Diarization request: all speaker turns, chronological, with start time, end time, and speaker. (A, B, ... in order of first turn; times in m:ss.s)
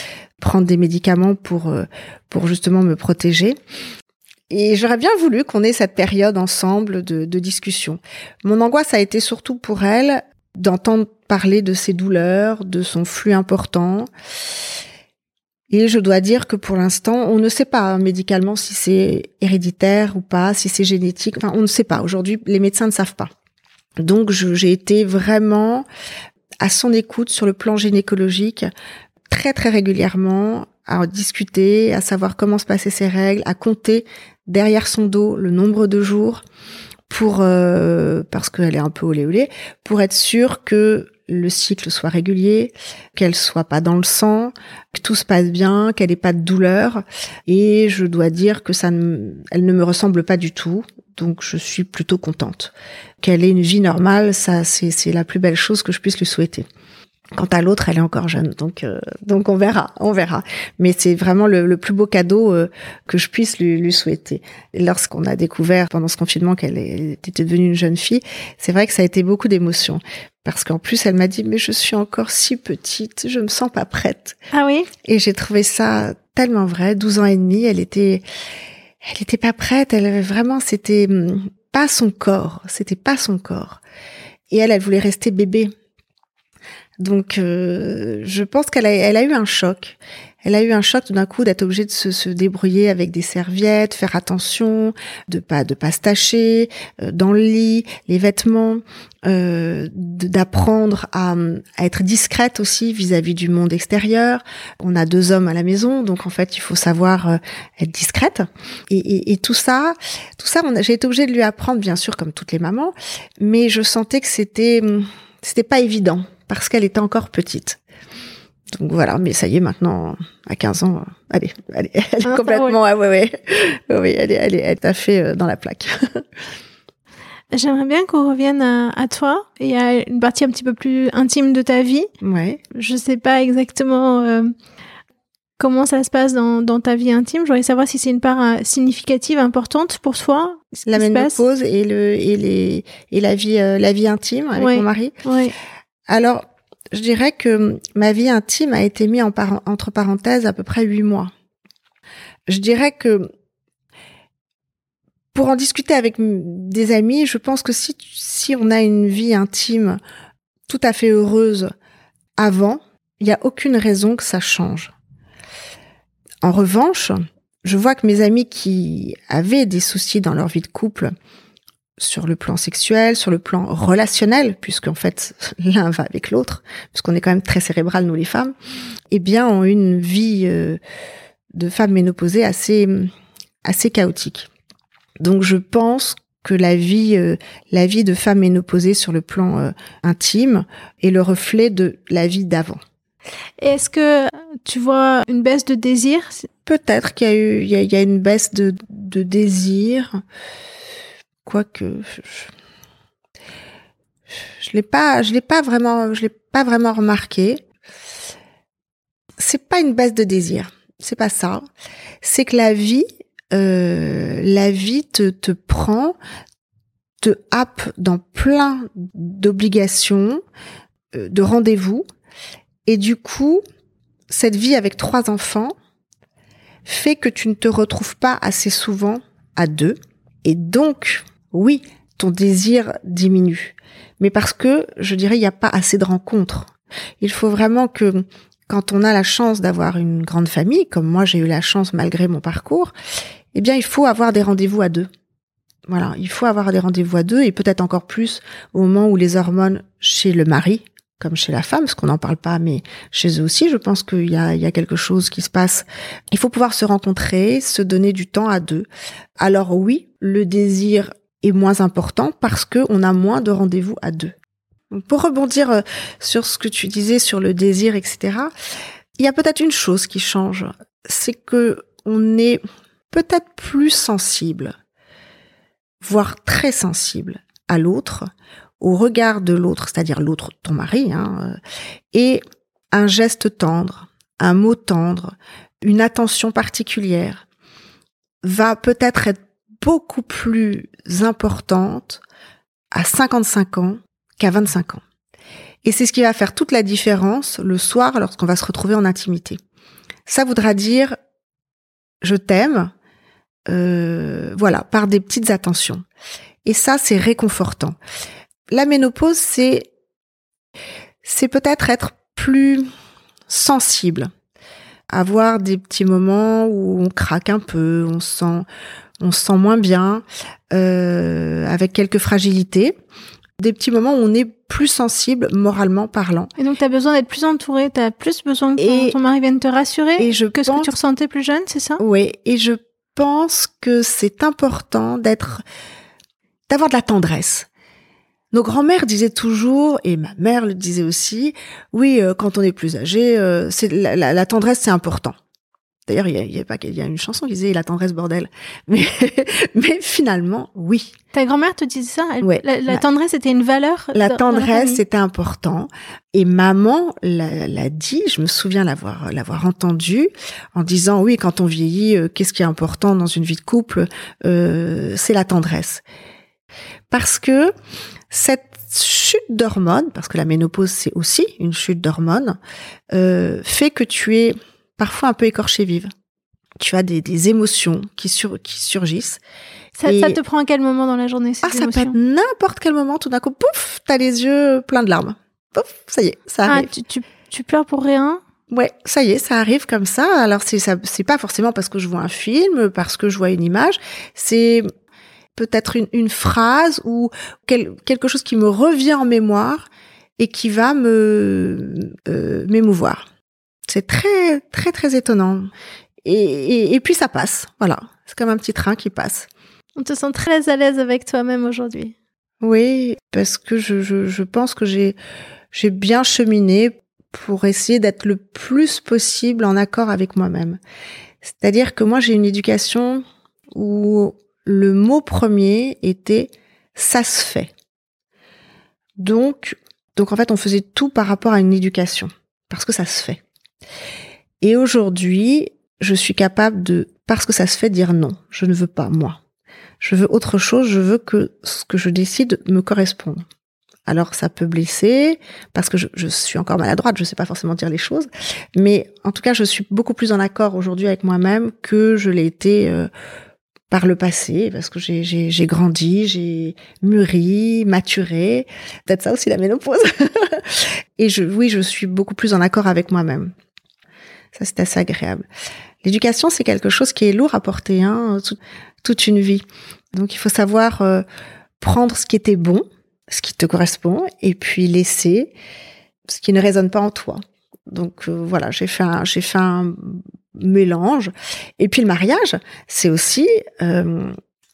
0:00.4-0:03.6 A
0:04.5-0:14.1 A
0:15.7-0:23.3 A
0:24.0-0:25.9 A
0:26.6-0:28.7 A
0:29.3-0:36.4 A
0:37.1-0:56.7 A
0:57.4-1:14.4 A
1:14.5-1:14.9 B
1:15.0-1:18.2 A
1:19.0-1:23.8 A
1:24.5-1:25.7 A
1:27.0-1:57.8 A
1:58.7-2:06.2 A
2:02.2-2:02.8 B
2:07.5-2:12.1 B
2:12.2-2:12.6 A
2:12.7-2:14.5 B
2:15.6-2:21.4 B
2:20.8-2:25.2 A
2:24.6-2:25.6 B
2:26.1-2:31.3 A
2:32.5-2:33.3 A
2:35.3-2:40.0 A
2:40.7-2:41.7 A
2:42.4-2:44.9 A
2:46.4-2:51.1 A
2:52.0-2:58.6 A
2:59.1-3:00.8 A
3:01.5-3:03.1 A
3:03.6-3:04.5 A
3:05.2-3:12.8 A
3:13.6-3:16.5 B
3:16.7-3:20.2 A
3:21.4-3:22.5 A
3:24.6-3:27.6 A
3:29.4-3:31.6 A
3:32.2-3:36.2 A
3:37.2-3:40.4 A
3:41.1-3:42.0 A
3:42.9-3:43.6 A
3:44.3-3:45.7 A
3:46.8-4:02.9 A
4:03.5-4:05.1 A
4:05.9-4:18.9 A
4:19.4-4:24.3 A
4:24.9-4:28.5 A
4:29.2-4:34.7 A
4:36.0-4:41.6 A
4:42.1-4:47.4 A
4:48.4-4:52.2 A
4:52.9-4:55.0 A
4:55.8-4:59.6 A
5:00.3-5:01.2 A
5:02.2-5:02.9 A
5:03.7-5:06.0 A
5:06.6-5:08.0 A
5:08.7-5:09.9 A
5:11.2-5:12.9 A
5:13.5-5:14.3 A
5:15.1-5:18.7 A
5:19.2-5:23.0 A
5:23.6-5:26.5 A
5:26.6-5:32.0 B
5:28.8-5:29.2 A
5:30.2-5:30.9 A
5:32.0-5:35.6 A
5:36.7-5:37.7 A
5:38.5-5:45.4 A
5:46.1-5:51.2 A
5:51.3-5:55.0 B
5:52.4-5:53.0 A
5:54.1-6:06.0 A
6:07.1-6:07.7 A
6:08.3-6:12.6 A
6:13.1-6:16.1 A
6:16.8-6:19.4 A
6:20.0-6:22.2 B
6:20.1-6:20.4 A
6:21.6-6:26.9 A
6:26.7-6:28.4 B
6:28.7-6:34.9 A
6:35.6-6:39.8 A
6:40.4-6:43.2 A
6:43.9-6:45.7 A
6:46.2-6:49.5 A
6:50.0-6:52.2 B
6:52.6-6:55.2 A
6:55.7-7:00.8 A
7:01.4-7:07.7 A
7:09.2-7:13.4 A
7:14.6-7:19.4 A
7:20.0-7:23.4 A
7:24.1-7:33.1 A
7:33.9-7:43.5 A
7:44.5-7:45.5 A
7:46.0-7:51.2 A
7:51.8-7:55.5 A
7:56.3-8:04.4 A